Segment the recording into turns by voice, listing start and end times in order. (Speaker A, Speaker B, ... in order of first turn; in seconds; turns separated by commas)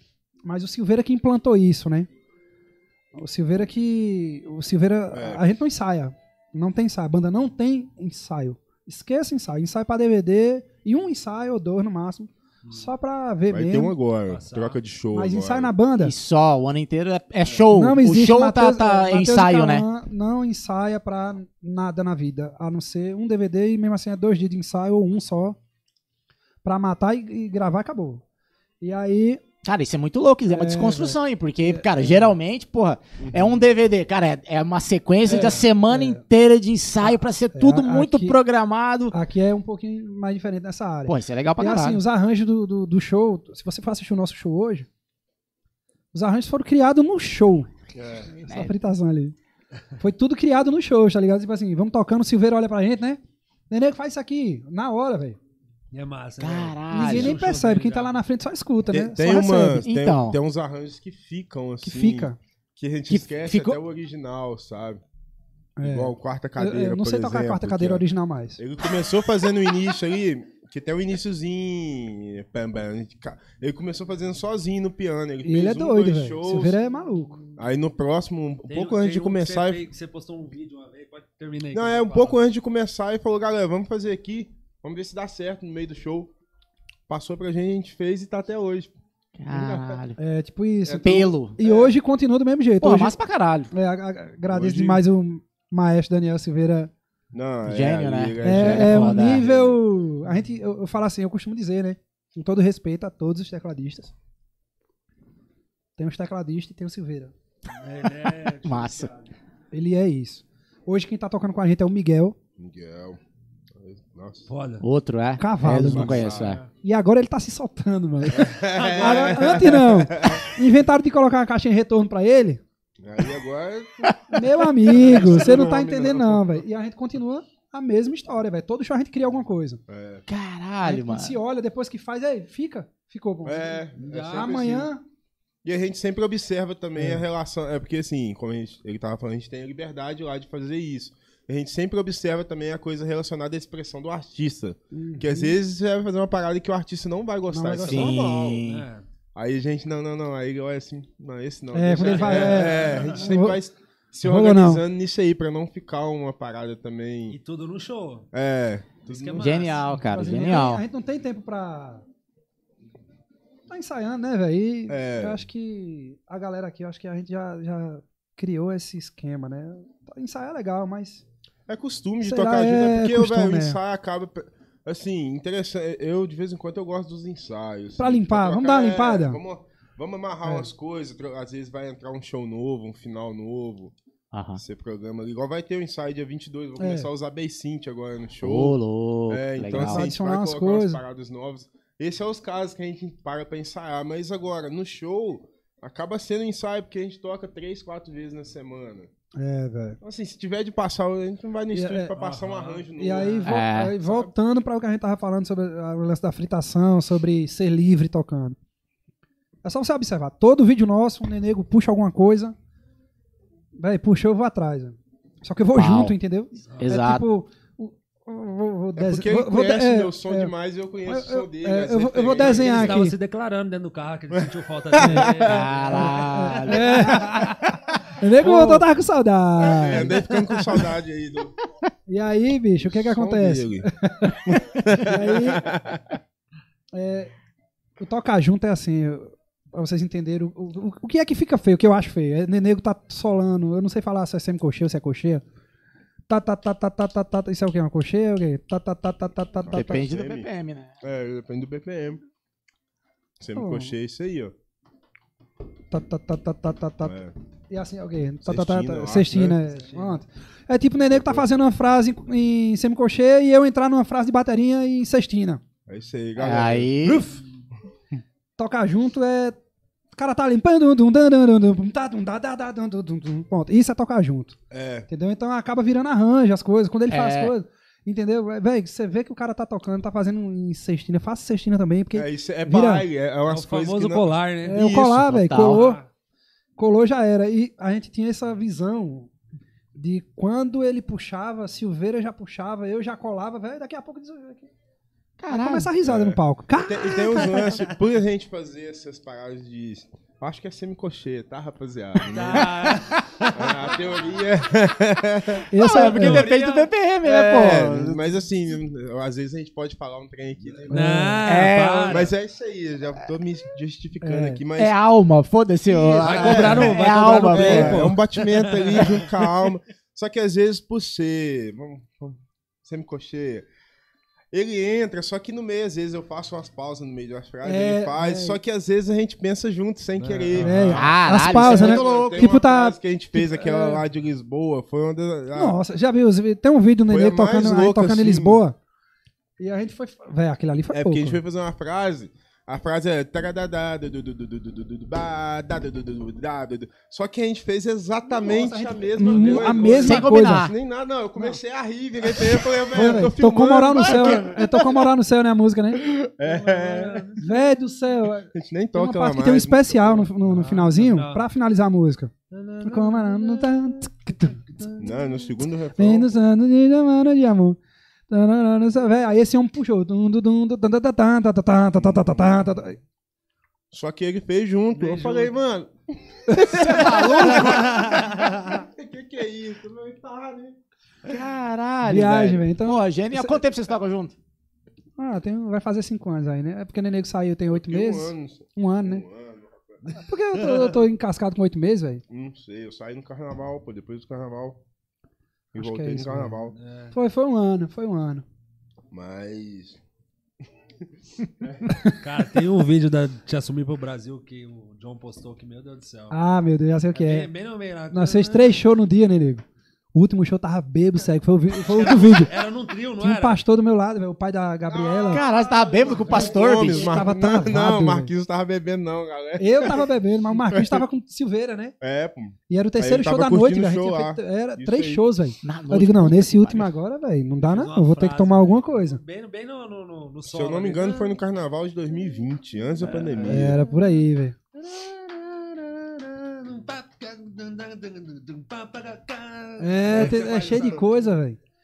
Speaker A: 0.4-2.1, Speaker A: 3.1-13.9, Speaker B: 5.1-5.5, Speaker B: 13.5-15.7, Speaker C: 14.3-14.8, Speaker A: 15.1-16.1, Speaker D: 16.0-19.9, Speaker A: 17.7-25.6, Speaker A: 26.6-28.2, Speaker A: 28.8-29.4, Speaker D: 29.6-39.1, Speaker A: 30.5-32.2, Speaker B: 33.2-33.6, Speaker A: 35.2-36.2, Speaker A: 37.0-38.4, Speaker A: 39.1-44.9, Speaker D: 41.1-42.0, Speaker A: 46.1-47.7, Speaker B: 47.9-48.3, Speaker A: 48.4-49.4, Speaker D: 48.5-48.7, Speaker A: 50.0-55.4, Speaker C: 55.9-58.1, Speaker D: 56.4-57.4, Speaker A: 56.9-59.8, Speaker B: 58.9-65.0, Speaker D: 59.8-60.4, Speaker A: 61.8-62.4, Speaker D: 63.1-63.8, Speaker A: 65.8-68.6, Speaker B: 65.8-68.0, Speaker B: 68.6-76.7, Speaker A: 75.4-77.4, Speaker B: 77.6-79.8, Speaker C: 78.7-82.4, Speaker B: 81.7-86.3, Speaker B: 87.1-88.9, Speaker D: 89.4-90.2, Speaker B: 89.5-90.0, Speaker A: 90.2-93.2, Speaker B: 90.8-91.9, Speaker D: 91.0-91.5, Speaker D: 92.8-93.7, Speaker A: 93.7-96.9, Speaker B: 94.5-95.0, Speaker B: 97.3-99.8, Speaker D: 97.6-99.4, Speaker A: 98.4-104.1, Speaker A: 106.0-107.3, Speaker C: 107.7-109.3, Speaker D: 108.6-109.1, Speaker A: 109.7-112.3, Speaker B: 112.6-113.2, Speaker B: 113.8-114.5, Speaker C: 114.5-114.8, Speaker D: 114.8-116.6, Speaker A: 115.4-122.6, Speaker B: 115.7-116.6, Speaker C: 116.3-116.7, Speaker B: 118.3-120.5, Speaker C: 118.5-119.7, Speaker B: 123.0-124.2, Speaker D: 124.0-124.4, Speaker A: 124.3-129.8, Speaker B: 124.8-126.6, Speaker B: 129.9-130.2, Speaker D: 130.3-131.4, Speaker A: 130.8-135.0, Speaker B: 133.4-134.9, Speaker C: 134.0-134.6, Speaker B: 135.6-148.6, Speaker A: 136.9-137.2, Speaker A: 144.9-145.6, Speaker A: 147.5-148.2, Speaker D: 147.8-148.8, Speaker C: 148.6-149.0, Speaker B: 149.3-157.4, Speaker A: 151.7-153.6, Speaker C: 152.0-153.3, Speaker A: 154.2-154.8, Speaker C: 157.3-158.3, Speaker B: 158.3-159.6, Speaker C: 159.0-159.8, Speaker D: 159.4-160.8, Speaker A: 159.9-162.0, Speaker A: 163.7-171.2, Speaker B: 164.9-165.4, Speaker B: 171.7-183.9, Speaker A: 172.2-173.8, Speaker A: 178.0-179.4, Speaker A: 180.4-180.7, Speaker D: 184.3-184.6, Speaker B: 184.6-188.8, Speaker A: 186.8-187.1, Speaker D: 188.4-190.1, Speaker B: 189.3-199.1, Speaker A: 189.7-191.0, Speaker A: 199.3-200.0, Speaker B: 200.0-204.3, Speaker A: 201.7-202.2, Speaker C: 202.2-203.5, Speaker A: 202.9-208.6, Speaker D: 203.4-203.9, Speaker A: 209.6-212.5, Speaker A: 213.8-220.5, Speaker D: 215.8-216.2, Speaker C: 216.7-216.9, Speaker D: 216.8-217.2, Speaker B: 219.0-223.0, Speaker A: 221.1-223.2, Speaker C: 222.4-227.6, Speaker B: 224.9-225.7, Speaker A: 225.0-225.2, Speaker D: 225.2-227.5, Speaker A: 225.9-227.6, Speaker A: 228.2-230.2, Speaker B: 229.6-231.6, Speaker A: 232.1-235.6, Speaker B: 232.8-233.9, Speaker B: 234.4-236.2, Speaker A: 236.9-237.3, Speaker A: 238.0-245.4, Speaker A: 246.3-250.1, Speaker B: 249.6-250.5, Speaker D: 249.7-251.0, Speaker B: 251.0-252.2, Speaker B: 253.4-254.5, Speaker A: 253.5-253.9, Speaker A: 255.9-257.2, Speaker B: 257.0-257.3, Speaker A: 257.7-265.6, Speaker B: 258.4-259.6, Speaker C: 259.7-260.2, Speaker B: 261.1-261.5, Speaker B: 265.9-267.2, Speaker D: 266.4-267.3, Speaker A: 268.6-269.6, Speaker A: 270.1-274.6, Speaker B: 274.7-275.1, Speaker A: 275.1-283.1, Speaker D: 277.1-277.5, Speaker B: 282.1-285.1, Speaker C: 283.5-284.9, Speaker A: 284.6-286.0, Speaker D: 284.8-285.8, Speaker C: 285.6-286.1, Speaker A: 286.8-289.3, Speaker A: 289.9-294.7, Speaker D: 295.4-295.9, Speaker A: 295.5-297.7, Speaker B: 296.0-302.9, Speaker C: 302.3-304.1, Speaker D: 302.6-303.2, Speaker B: 303.5-305.7, Speaker A: 305.7-306.5, Speaker D: 305.8-308.2, Speaker C: 306.1-306.9, Speaker B: 307.2-311.0, Speaker C: 310.9-312.3, Speaker A: 310.9-311.4, Speaker D: 311.4-312.3, Speaker B: 312.1-314.9, Speaker A: 314.2-314.6, Speaker D: 314.8-318.1, Speaker B: 315.9-323.7, Speaker C: 316.2-319.3, Speaker B: 324.5-335.8, Speaker A: 327.6-328.6, Speaker C: 330.2-331.1, Speaker A: 330.6-334.0, Speaker D: 330.9-332.5, Speaker A: 335.5-338.8, Speaker B: 337.1-338.6, Speaker A: 339.6-341.4, Speaker B: 340.9-354.9, Speaker A: 348.3-350.6, Speaker C: 349.3-350.0, Speaker D: 350.0-350.7, Speaker A: 352.9-356.1, Speaker D: 354.0-354.4, Speaker B: 356.0-357.4, Speaker C: 356.4-357.4, Speaker A: 357.4-362.3, Speaker B: 358.5-360.3, Speaker C: 360.4-361.4, Speaker C: 362.5-365.3, Speaker A: 362.8-364.6, Speaker B: 365.0-366.3, Speaker A: 366.0-367.8, Speaker A: 368.3-373.0, Speaker B: 372.0-372.6, Speaker B: 373.9-380.8, Speaker C: 374.9-375.5, Speaker A: 376.5-377.8, Speaker D: 376.6-378.1, Speaker C: 377.5-378.8, Speaker D: 381.2-384.4, Speaker A: 382.0-383.6, Speaker A: 385.2-389.2, Speaker B: 387.7-390.1, Speaker C: 390.1-391.0, Speaker A: 390.2-392.2, Speaker B: 392.3-394.8, Speaker A: 395.7-396.6, Speaker B: 395.7-396.7, Speaker C: 396.7-397.1, Speaker A: 397.1-398.4, Speaker B: 399.1-400.0, Speaker B: 401.6-401.9, Speaker A: 401.9-402.2, Speaker C: 402.2-406.3, Speaker A: 406.3-407.5, Speaker C: 407.1-408.8, Speaker A: 408.1-412.5, Speaker C: 411.8-413.6, Speaker A: 413.2-415.4, Speaker B: 414.9-421.0, Speaker D: 415.3-417.3, Speaker C: 415.9-416.6, Speaker A: 416.3-418.3, Speaker A: 419.6-421.9, Speaker B: 422.0-425.2, Speaker A: 422.7-429.2, Speaker D: 425.6-426.9, Speaker C: 427.6-431.3, Speaker B: 430.5-433.8, Speaker C: 433.0-433.7, Speaker A: 433.4-434.6, Speaker C: 434.9-441.3, Speaker A: 439.8-441.6, Speaker B: 440.1-440.9